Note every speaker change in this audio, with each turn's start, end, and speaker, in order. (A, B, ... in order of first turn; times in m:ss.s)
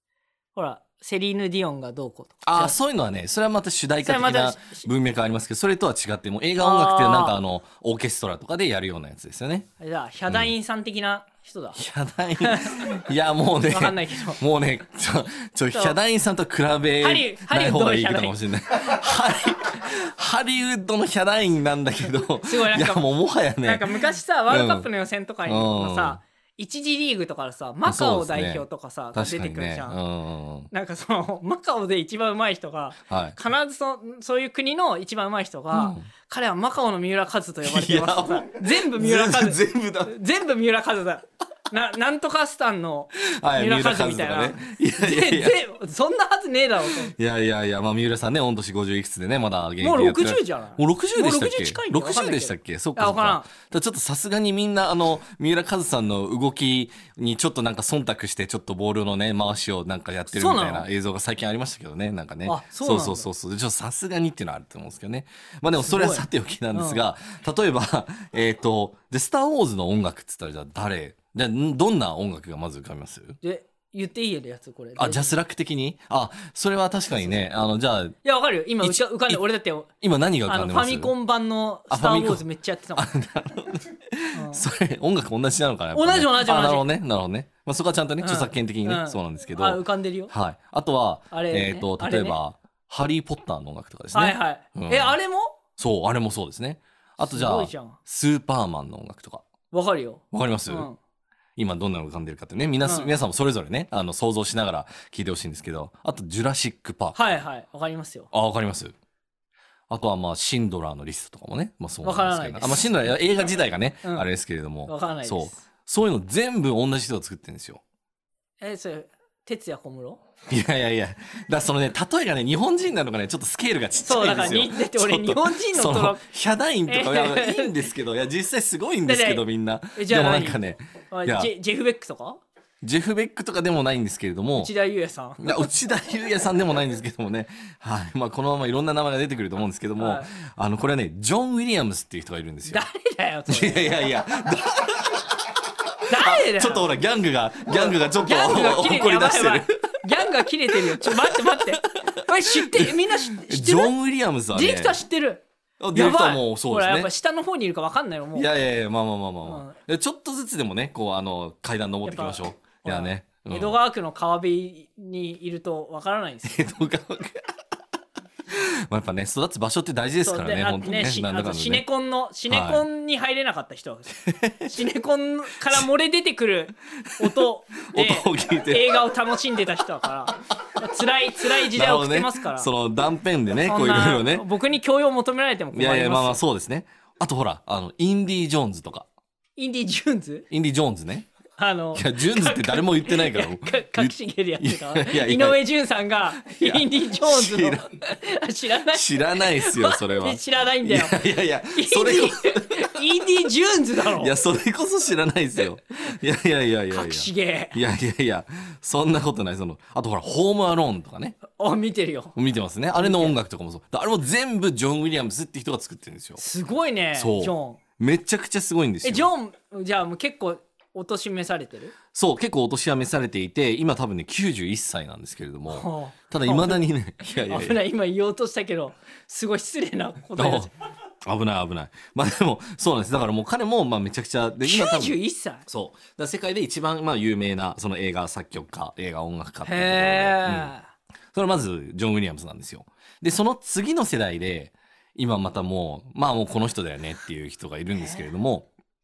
0:00.5-0:02.8 A
0:02.4-0:09.7 B
0:04.0-0:04.9 A
0:06.6-0:07.4 A
0:09.8-0:11.8 A
0:11.8-0:23.9 B
0:12.4-0:13.1 A
0:13.7-0:14.4 A
0:17.0-0:18.4 A
0:22.4-0:23.0 A
0:23.6-0:30.0 A
0:24.5-0:24.9 B
0:25.4-0:26.2 B
0:27.8-0:30.7 B
0:30.7-0:47.1 A
0:33.1-0:33.4 B
0:35.7-0:36.0 B
0:37.6-0:40.1 B
0:43.4-0:45.6 B
0:47.0-1:13.4 B
0:49.8-0:53.5 A
1:00.3-1:00.9 A
1:02.4-1:03.3 A
1:05.8-1:07.0 A
1:13.4-1:15.3 A
1:15.0-1:18.2 B
1:18.2-1:19.9 A
1:18.8-1:19.4 B
1:20.0-1:21.1 B
1:20.4-1:23.1 A
1:21.9-1:22.4 B
1:23.0-1:35.2 B
1:24.3-1:24.6 A
1:25.9-1:26.8 A
1:28.2-1:30.3 A
1:31.3-1:32.4 A
1:34.1-1:35.6 A
1:35.8-1:39.4 B
1:37.2-1:38.0 A
1:39.7-1:41.0 A
1:40.3-1:40.9 B
1:41.6-1:47.2 B
1:42.8-1:43.1 A
1:47.1-1:48.3 A
1:48.3-1:48.9 B
1:49.9-1:57.8 B
1:52.0-1:53.1 A
1:54.8-1:55.6 A
1:58.6-2:00.2 A
2:00.5-2:11.5 B
2:04.0-2:06.2 A
2:06.9-2:07.7 A
2:09.0-2:12.4 A
2:12.8-2:14.7 B
2:14.6-2:15.7 A
2:15.4-2:22.8 B
2:20.0-2:20.3 A
2:22.7-2:24.0 A
2:23.5-2:25.4 B
2:26.1-2:26.9 A
2:26.1-2:29.7 B
2:27.7-2:33.9 A
2:30.7-2:35.0 B
2:34.5-2:35.4 A
2:35.8-2:37.1 B
2:35.9-2:38.5 A
2:38.3-2:43.8 B
2:39.4-2:39.8 A
2:42.0-2:46.7 A
2:46.5-2:47.4 B
2:48.5-2:51.8 B
2:50.2-3:02.7 A
2:52.5-2:52.8 B
2:54.2-2:54.7 B
2:57.2-2:59.0 B
3:01.4-3:04.4 B
3:03.6-3:06.4 A
3:05.7-3:09.1 B
3:09.6-3:10.5 A
3:10.5-3:11.3 B
3:11.6-3:24.4 A
3:11.9-3:15.6 B
3:16.4-3:17.9 B
3:18.9-3:23.2 B
3:24.0-3:31.4 B
3:26.9-3:27.8 A
3:31.5-3:32.4 A
3:32.4-3:36.4 B
3:33.0-3:33.4 A
3:36.4-3:37.8 A
3:37.1-3:39.3 B
3:39.0-3:41.9 A
3:42.1-3:47.8 B
3:45.7-3:50.7 A
3:50.4-3:50.7 B
3:51.2-4:00.7 B
3:54.6-3:55.6 A
3:59.6-4:00.9 A
4:01.3-4:08.7 B
4:07.9-4:08.2 A